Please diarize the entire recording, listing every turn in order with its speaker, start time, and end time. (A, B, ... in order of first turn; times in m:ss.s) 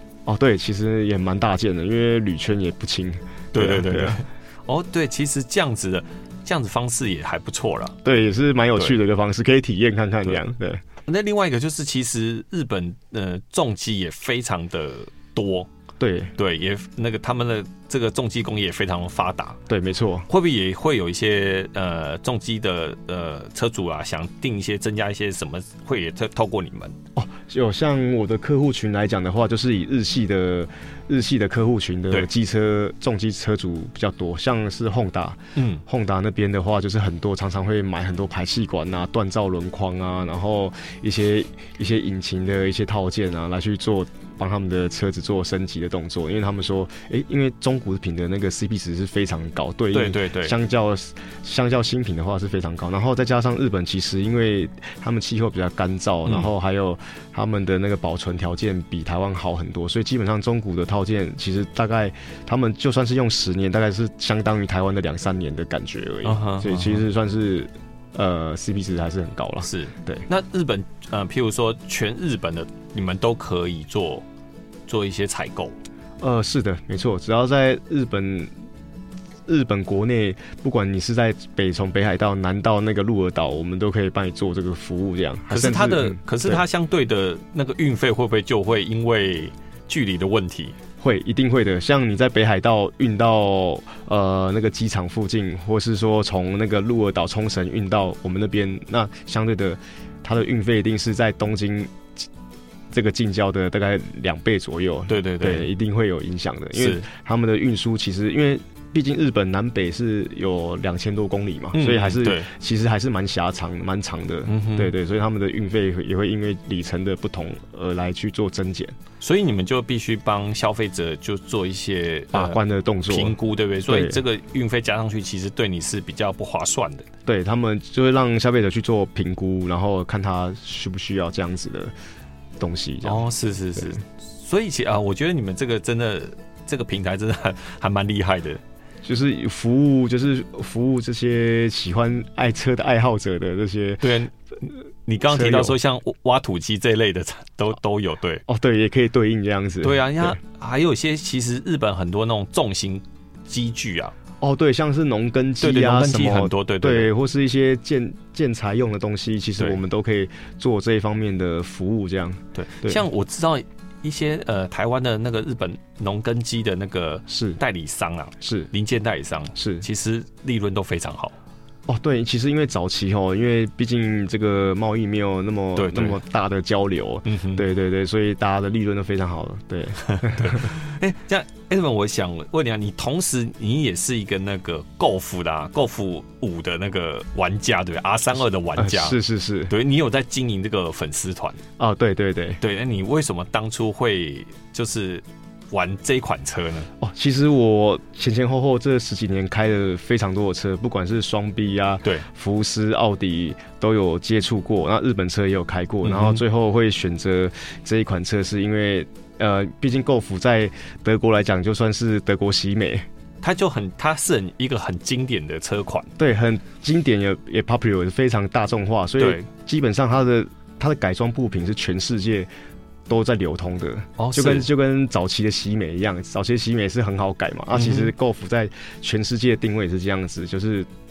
0:00.3-0:04.2 A
0:03.5-0:08.0 B
0:08.0-0:10.8 A
0:11.1-0:15.7 B
0:16.0-0:16.3 A
0:16.4-0:19.6 B
0:19.7-0:20.3 A
0:20.3-0:27.0 B
0:27.2-1:10.2 A
0:35.6-0:35.8 B
0:49.9-0:50.6 B
1:06.2-1:07.0 B
1:09.6-1:14.2 B
1:14.9-1:15.8 B
1:16.2-1:18.5 A
1:19.5-1:26.6 A
1:25.5-1:30.8 B
1:31.0-1:42.2 A
1:42.9-1:59.0 A
1:45.1-1:45.7 B
1:46.8-1:47.1 B
1:51.7-1:52.5 B
1:54.5-1:54.9 B
1:59.2-2:07.1 B
2:02.3-2:03.4 A
2:03.9-2:04.2 A
2:07.3-2:11.9 A
2:12.6-2:13.2 A
2:13.0-2:18.6 B
2:19.0-2:24.1 A
2:24.0-2:28.4 B
2:25.3-2:25.8 A
2:28.5-2:30.4 A
2:29.8-2:34.2 B
2:34.4-2:43.0 A
2:35.6-2:37.1 B
2:42.6-2:51.4 B
2:47.3-2:47.6 A
2:48.4-2:48.7 A
2:49.6-2:49.8 A
2:51.9-3:00.7 A
2:55.8-2:56.2 B
2:57.2-2:57.6 B
3:00.1-3:11.6 B
3:08.8-3:09.7 A
3:11.8-3:12.6 A
3:12.6-3:16.9 B
3:17.0-3:33.1 A
3:26.0-3:26.4 B
3:33.4-3:36.1 B
3:36.2-3:42.5 A
3:39.2-3:39.5 B
3:43.1-3:50.9 A
3:44.2-3:44.7 B
3:47.7-3:48.1 B